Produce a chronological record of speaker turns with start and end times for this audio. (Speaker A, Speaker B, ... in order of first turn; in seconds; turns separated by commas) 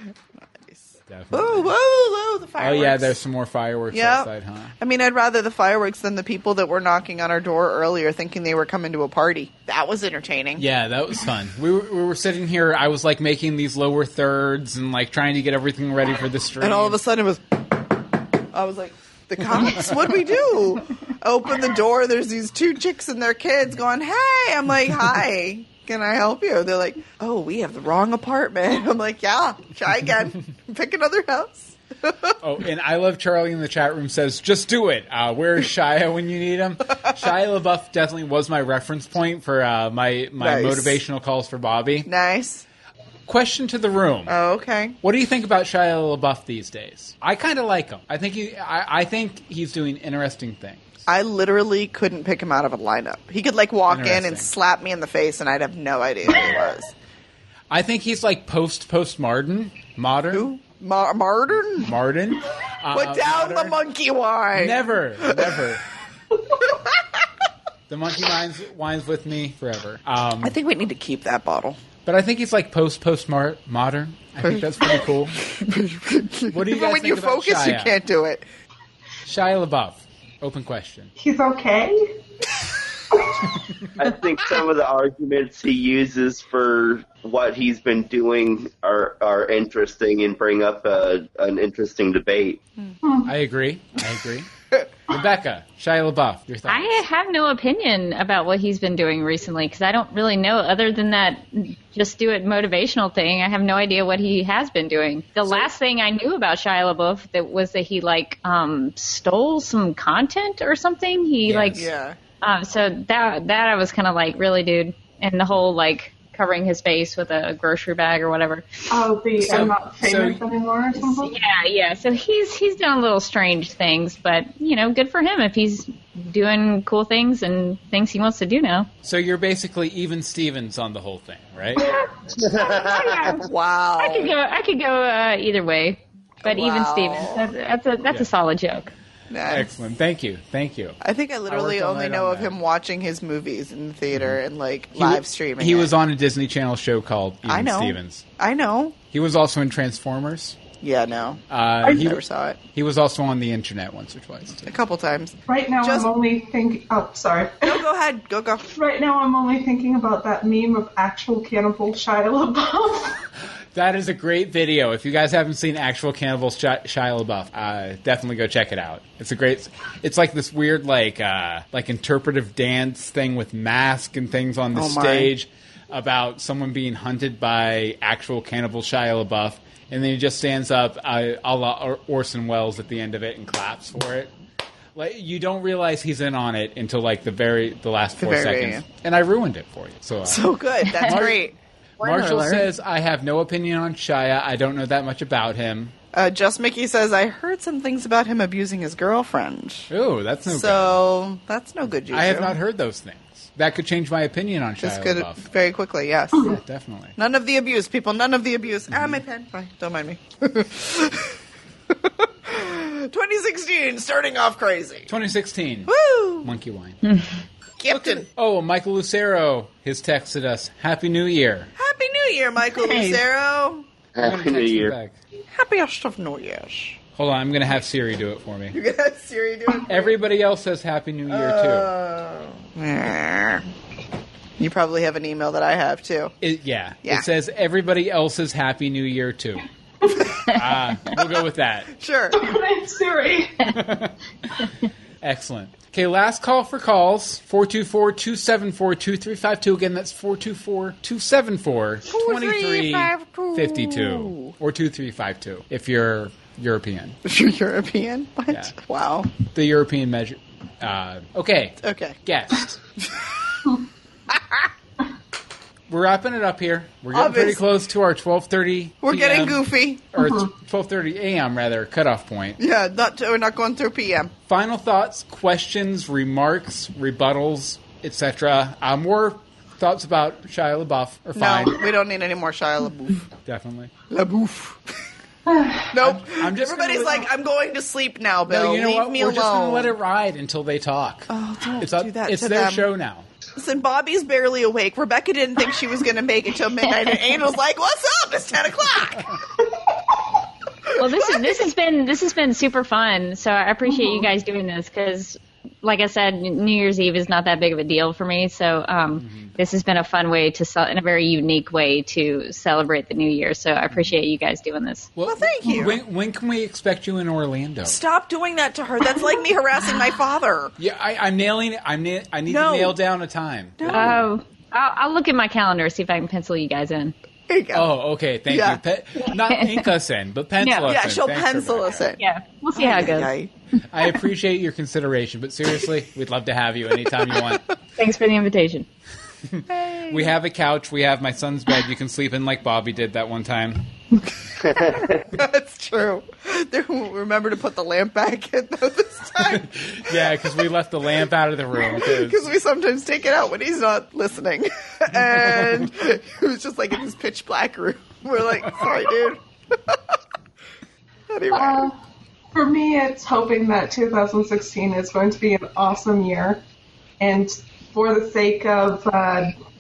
Speaker A: 0.7-3.2, Speaker B: 1.1-1.7, Speaker B: 2.6-4.7, Speaker A: 3.9-10.7, Speaker B: 10.6-17.0, Speaker A: 16.6-17.9, Speaker A: 18.5-32.4, Speaker B: 32.4-42.1, Speaker A: 40.4-41.0, Speaker A: 42.1-42.6, Speaker B: 43.3-44.4, Speaker A: 44.3-45.0, Speaker B: 45.0-50.9, Speaker A: 51.1-56.9, Speaker B: 53.9-54.5, Speaker B: 57.7-60.5, Speaker A: 60.3-61.9, Speaker B: 61.8-63.8, Speaker A: 62.9-65.5, Speaker B: 64.5-65.8, Speaker A: 66.7-67.0, Speaker B: 67.9-70.5, Speaker A: 70.4-71.8, Speaker B: 72.0-75.4, Speaker A: 75.5-78.5, Speaker B: 76.5-78.0, Speaker B: 79.2-81.1, Speaker C: 81.2-82.1, Speaker D: 84.0-92.6, Speaker B: 93.2-94.5, Speaker B: 95.1-97.0, Speaker E: 96.7-111.9, Speaker B: 111.5-111.8, Speaker A: 111.8-112.2, Speaker E: 112.4-118.9, Speaker C: 118.9-121.4, Speaker B: 119.4-120.4, Speaker E: 121.1-128.9, Speaker B: 129.0-131.9, Speaker E: 131.8-133.5, Speaker D: 132.3-133.4, Speaker A: 133.4-134.3, Speaker E: 134.0-138.9, Speaker A: 136.4-137.4, Speaker A: 139.3-139.7, Speaker B: 139.5-142.6, Speaker A: 141.0-145.9, Speaker B: 144.1-144.4, Speaker B: 145.0-148.2, Speaker A: 147.5-149.0, Speaker B: 149.1-150.6, Speaker A: 150.8-152.6, Speaker B: 151.5-152.2, Speaker B: 152.7-154.7, Speaker A: 154.7-156.1, Speaker C: 155.5-157.8, Speaker A: 157.7-158.7, Speaker C: 158.7-163.2, Speaker B: 163.7-184.3, Speaker A: 174.8-175.3, Speaker B: 185.0-191.4, Speaker A: 188.2-188.8, Speaker A: 190.3-191.6, Speaker B: 192.0-195.9, Speaker E: 192.0-192.6, Speaker A: 196.1-199.9, Speaker B: 199.9-201.0, Speaker A: 200.5-202.6, Speaker B: 202.1-205.4, Speaker A: 204.8-206.6, Speaker B: 206.4-207.2, Speaker A: 207.2-211.3, Speaker B: 208.9-209.2, Speaker A: 212.0-215.1, Speaker B: 215.1-217.0, Speaker A: 215.9-216.5, Speaker A: 217.8-218.3, Speaker B: 217.9-221.7, Speaker A: 221.8-223.9, Speaker E: 222.8-223.2, Speaker D: 224.2-224.9, Speaker B: 224.2-225.2, Speaker A: 225.5-227.0, Speaker B: 227.2-228.8, Speaker A: 228.7-230.2, Speaker B: 229.9-231.9, Speaker A: 231.3-233.7, Speaker A: 234.6-236.3, Speaker B: 236.4-239.7, Speaker B: 240.4-241.9, Speaker A: 241.9-242.5, Speaker C: 242.3-243.8, Speaker B: 243.7-244.2, Speaker B: 245.2-257.2, Speaker A: 252.1-254.5, Speaker A: 257.2-259.3, Speaker B: 258.5-258.7, Speaker B: 259.4-262.8, Speaker A: 261.8-262.2, Speaker A: 264.3-264.7, Speaker B: 265.9-272.6, Speaker A: 267.1-267.6, Speaker A: 269.0-270.1, Speaker C: 270.2-270.5, Speaker A: 272.6-274.3, Speaker B: 274.5-281.8, Speaker A: 281.4-283.2, Speaker B: 283.5-283.9, Speaker A: 284.1-284.8, Speaker C: 285.5-285.9, Speaker A: 285.9-290.0, Speaker B: 286.0-287.3, Speaker B: 288.5-293.3, Speaker A: 291.3-292.9, Speaker A: 293.6-299.4, Speaker E: 301.0-315.1, Speaker A: 301.0-301.6, Speaker C: 303.9-304.2, Speaker B: 309.2-309.5, Speaker B: 315.2-318.0, Speaker A: 315.3-316.0, Speaker A: 317.9-320.7, Speaker B: 320.8-324.2, Speaker A: 322.5-323.0, Speaker A: 323.8-324.3, Speaker E: 323.9-327.1, Speaker A: 327.5-327.9, Speaker B: 327.7-332.1, Speaker A: 328.5-328.8, Speaker E: 330.6-330.9, Speaker A: 330.8-332.2, Speaker E: 332.2-333.3, Speaker A: 332.8-333.5, Speaker B: 333.9-337.6, Speaker E: 338.0-338.9, Speaker B: 339.5-343.9, Speaker A: 339.7-340.3, Speaker D: 344.6-345.2, Speaker A: 345.3-350.4, Speaker B: 349.4-352.5, Speaker A: 351.8-360.0, Speaker A: 361.3-361.9, Speaker C: 361.5-361.9, Speaker C: 362.5-366.6, Speaker C: 367.2-369.5